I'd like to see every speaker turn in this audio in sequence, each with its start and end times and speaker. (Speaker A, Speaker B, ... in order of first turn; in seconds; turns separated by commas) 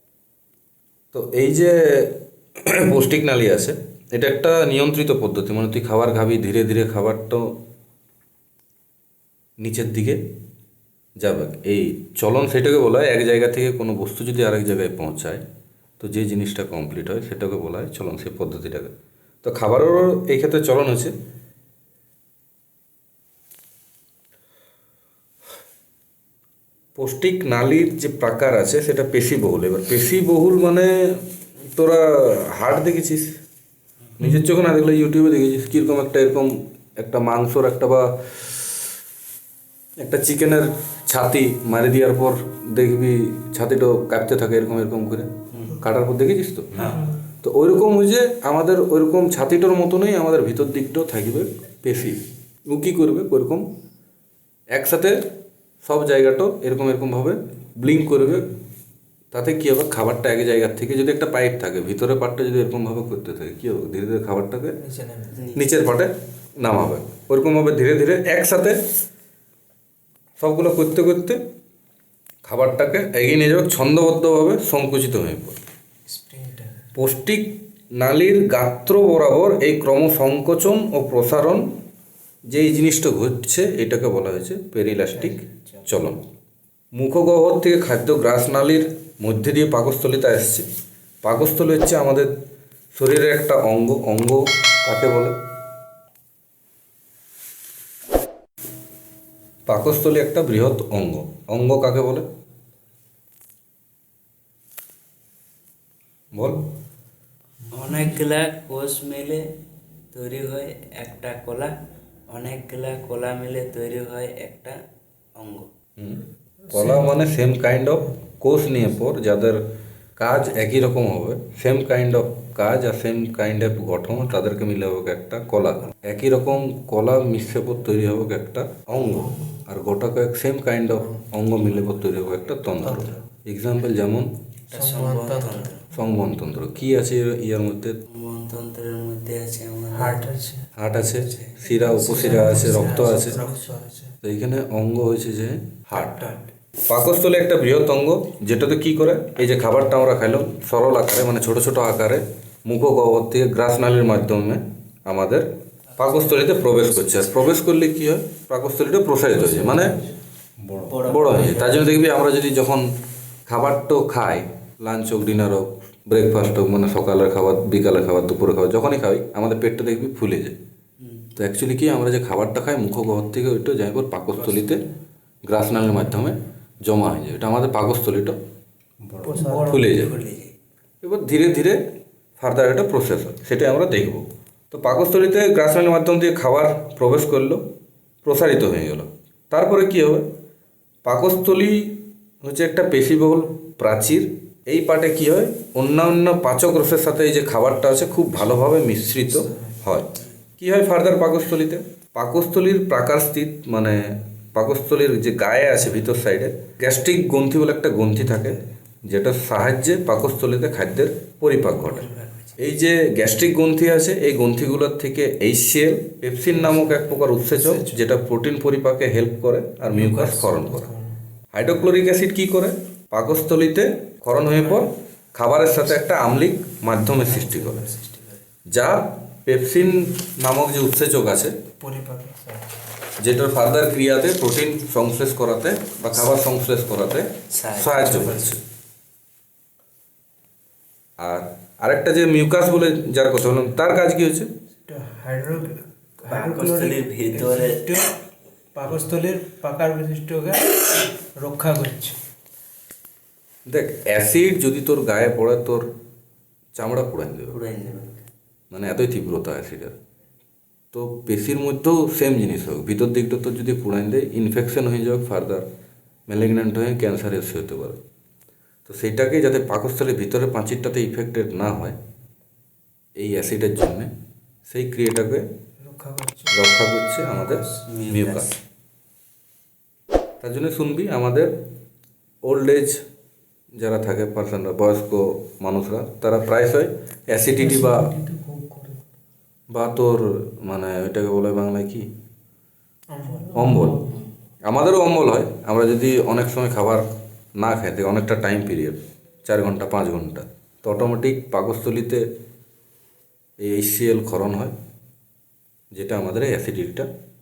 Speaker A: 1.1-7.5, Speaker A: 9.6-10.2, Speaker A: 11.2-15.4, Speaker A: 16.0-18.9, Speaker A: 19.4-21.1, Speaker A: 27.0-31.2, Speaker A: 31.7-33.3, Speaker A: 34.2-38.6, Speaker A: 40.0-53.7, Speaker B: 45.5-45.8, Speaker B: 46.7-47.1, Speaker A: 54.7-55.2, Speaker A: 55.8-58.5, Speaker A: 59.3-64.8, Speaker C: 64.8-65.5, Speaker B: 65.3-65.7, Speaker A: 65.5-68.8, Speaker A: 70.4-71.4, Speaker A: 72.4-75.6, Speaker C: 76.0-76.8, Speaker A: 76.9-81.7, Speaker A: 82.5-86.2, Speaker C: 85.1-85.8, Speaker A: 86.9-90.6, Speaker A: 91.2-92.3, Speaker A: 92.9-95.3, Speaker A: 99.7-102.2, Speaker A: 106.3-106.6, Speaker B: 107.7-109.5, Speaker B: 110.1-111.7, Speaker B: 112.3-114.8, Speaker B: 115.3-115.7, Speaker A: 116.0-119.6, Speaker C: 116.7-117.2, Speaker A: 120.2-134.3, Speaker C: 129.2-129.6, Speaker C: 132.8-133.2, Speaker B: 134.7-135.8, Speaker C: 134.7-135.8, Speaker A: 135.9-138.0, Speaker B: 138.1-140.3, Speaker C: 139.9-140.7, Speaker A: 140.8-143.4, Speaker B: 141.1-141.6, Speaker C: 141.7-144.1, Speaker A: 144.2-155.4, Speaker B: 155.9-157.5, Speaker A: 156.0-160.0, Speaker B: 160.8-161.9, Speaker A: 161.0-162.9, Speaker A: 163.5-170.5, Speaker B: 171.0-171.3, Speaker A: 171.3-174.8, Speaker A: 175.4-178.4, Speaker B: 179.1-180.5, Speaker C: 179.2-179.9, Speaker A: 179.6-180.2, Speaker A: 181.0-181.8, Speaker A: 182.4-187.6, Speaker A: 188.2-190.2, Speaker A: 191.0-191.9, Speaker A: 192.4-220.9, Speaker C: 199.3-199.8, Speaker B: 211.8-212.5, Speaker C: 216.5-218.0, Speaker C: 219.8-221.2, Speaker A: 221.5-227.8, Speaker C: 224.4-224.8, Speaker C: 227.5-228.1, Speaker B: 227.7-228.3, Speaker A: 228.7-231.5, Speaker C: 229.8-230.1, Speaker C: 231.8-232.8, Speaker A: 233.2-238.6, Speaker B: 237.5-238.6, Speaker A: 241.2-244.5, Speaker C: 244.9-248.1, Speaker B: 246.2-247.9, Speaker C: 248.7-252.2, Speaker A: 253.7-255.9, Speaker A: 256.8-257.6, Speaker B: 257.5-258.2, Speaker A: 258.7-259.9, Speaker A: 260.9-265.6, Speaker A: 266.3-268.0, Speaker A: 268.9-271.9, Speaker A: 273.2-274.1, Speaker A: 274.7-275.4, Speaker C: 275.8-276.6, Speaker A: 276.5-278.5, Speaker C: 277.2-277.8, Speaker B: 277.9-278.5, Speaker A: 280.4-281.5, Speaker A: 282.4-283.0, Speaker A: 283.8-288.1, Speaker C: 287.6-289.0, Speaker A: 289.7-292.0, Speaker C: 293.1-294.2, Speaker A: 293.5-294.0, Speaker A: 294.7-297.0, Speaker A: 297.6-302.2, Speaker A: 303.6-304.7, Speaker A: 305.9-307.1